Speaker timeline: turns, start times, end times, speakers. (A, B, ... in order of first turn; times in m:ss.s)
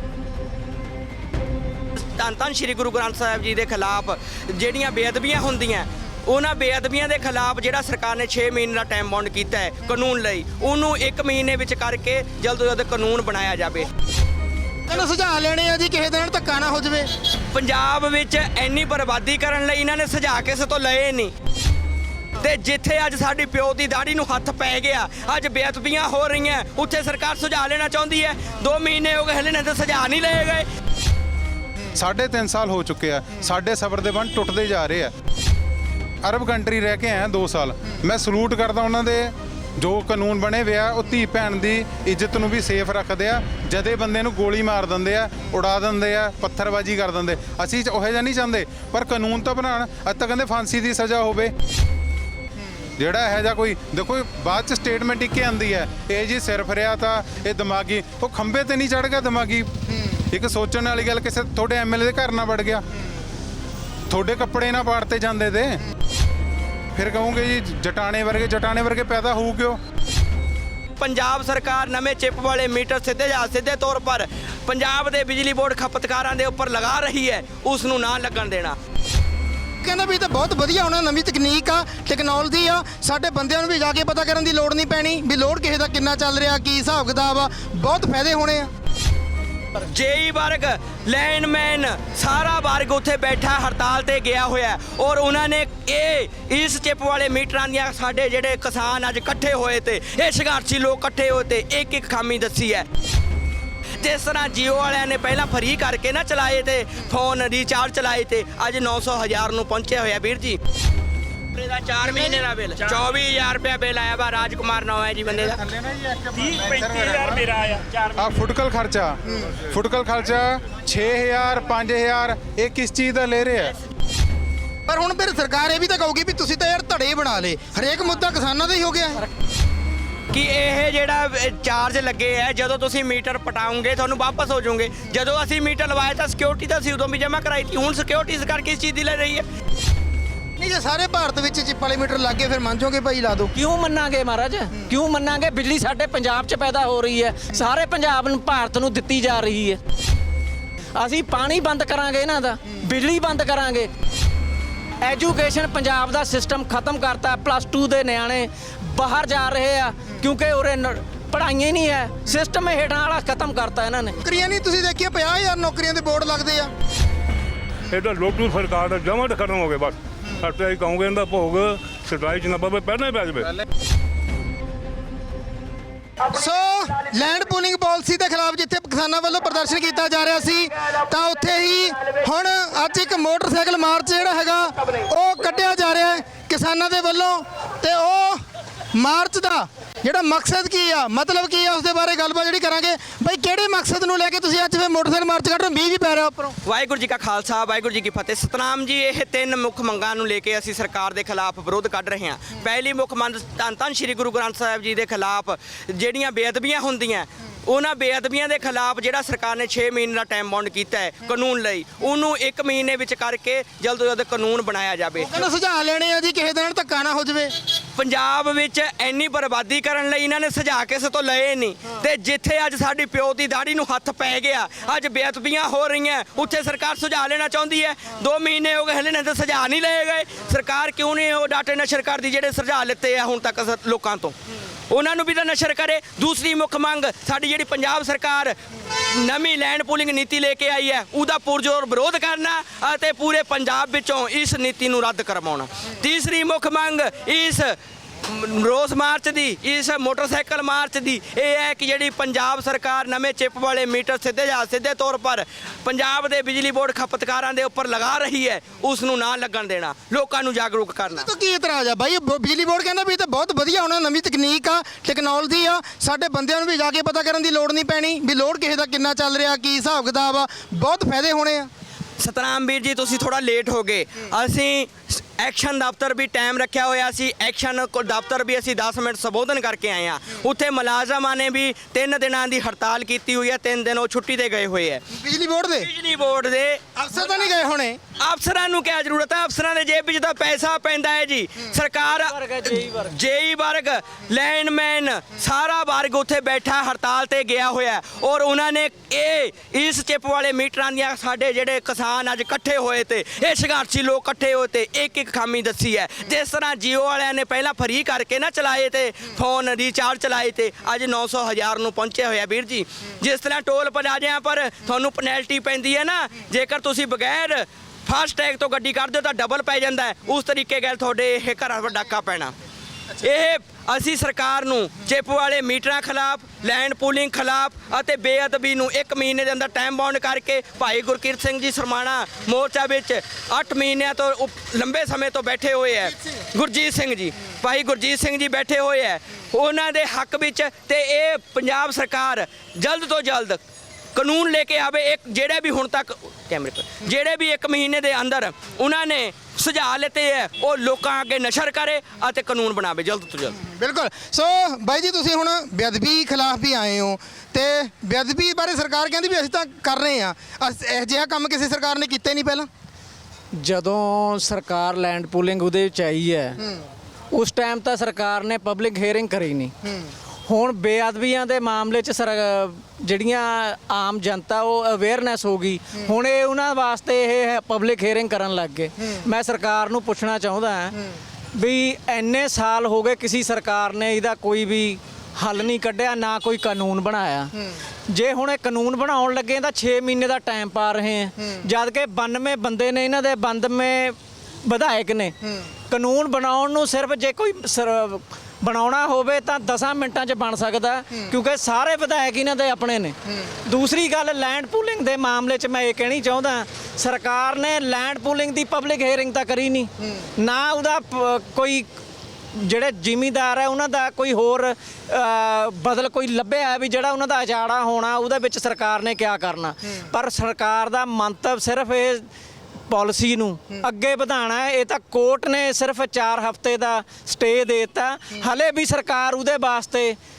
0:02.0-0:13.9 A
0:14.9-0:17.1 B
0:17.5-0:21.3 A
0:22.4-0:30.7 A
0:32.0-0:35.1 C
0:36.2-0:51.5 C
0:53.0-0:59.7 C
1:00.3-1:02.8 C
1:04.1-1:05.8 C
1:06.9-1:09.8 C
1:11.0-1:18.8 A
1:19.8-1:28.7 B
1:29.8-1:42.9 A
1:44.0-1:50.6 A
1:51.6-1:55.6 A
1:55.6-2:03.7 C
2:04.9-2:09.2 B
2:10.3-2:19.4 A
2:20.6-2:23.5 B
2:23.5-2:29.8 D
2:31.0-2:33.9 D
2:35.0-2:44.2 D
2:44.2-2:46.7 B
2:47.9-2:53.6 E
2:56.3-3:08.4 B
3:08.9-3:16.6 B
3:16.6-3:35.3 A
3:35.3-3:37.5 B
3:38.0-3:54.3 A
3:54.9-4:21.3 A
4:21.2-4:31.7 B
4:32.2-4:45.0 A
4:45.1-4:45.9 B
4:45.8-4:46.8 A
4:47.0-4:48.0 B
4:48.2-5:22.5 A
4:52.0-4:53.1 D
5:23.2-5:43.6 A
5:44.2-5:53.6 A
5:53.6-6:02.7 B
6:03.5-6:06.6 D
6:07.3-6:09.7 D
6:10.5-6:21.0 D
6:21.5-6:27.5 D
6:28.1-6:35.4 D
6:35.9-6:51.9 D
6:52.5-7:02.3 D
7:02.9-7:10.2 D